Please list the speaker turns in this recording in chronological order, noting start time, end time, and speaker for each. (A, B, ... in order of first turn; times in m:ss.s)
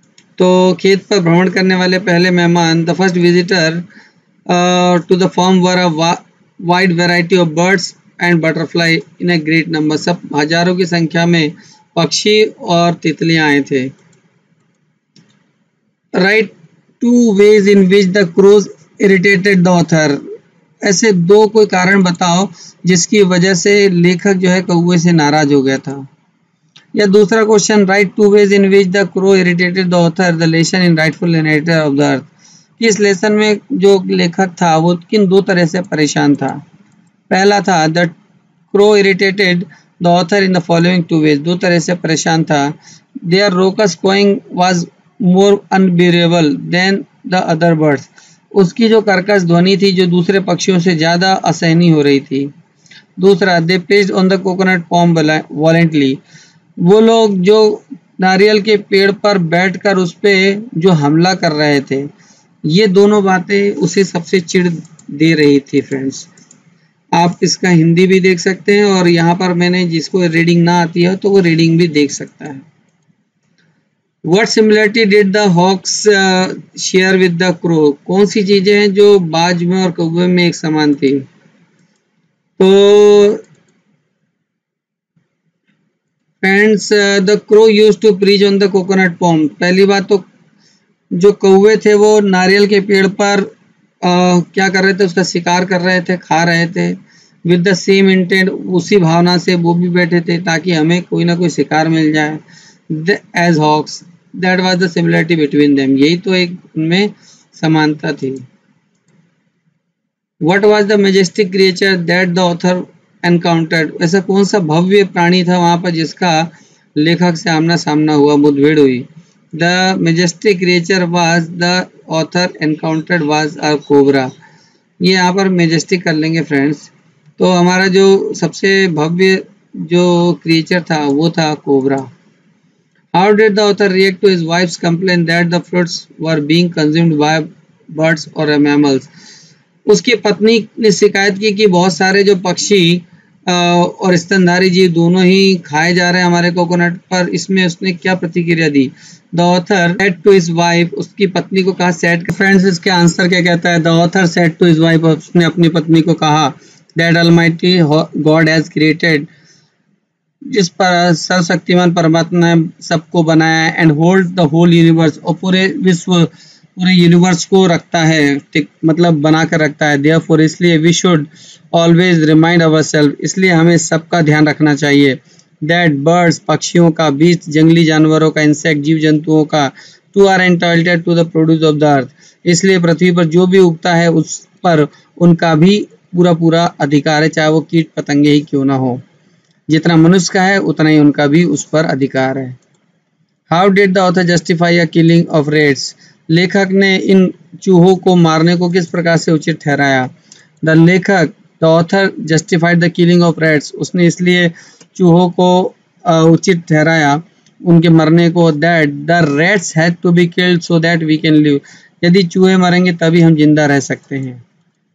0:00.4-0:03.8 A
0:04.5-0:13.9 A
0:16.2-0:20.2 A
0:20.8-0:26.1 A
0:26.9-0:32.3 A
0:32.8-0:36.6 A
0:37.3-0:38.1 A
0:38.7-0:42.7 A
0:43.3-0:52.5 A
0:53.2-0:56.2 A
0:56.8-1:02.1 A
1:02.6-1:06.3 A
1:07.1-1:12.6 A
1:14.2-1:21.2 A
1:22.6-1:23.4 A
1:26.4-1:30.2 A
1:31.1-1:33.5 A
1:34.0-1:48.4 A
1:50.4-2:04.3 A
2:05.0-2:12.1 A
2:13.1-2:19.1 A
2:19.9-2:39.3 A
2:40.5-3:09.0 A
3:09.7-3:12.6 A
3:13.5-3:20.1 A
3:20.6-3:34.4 A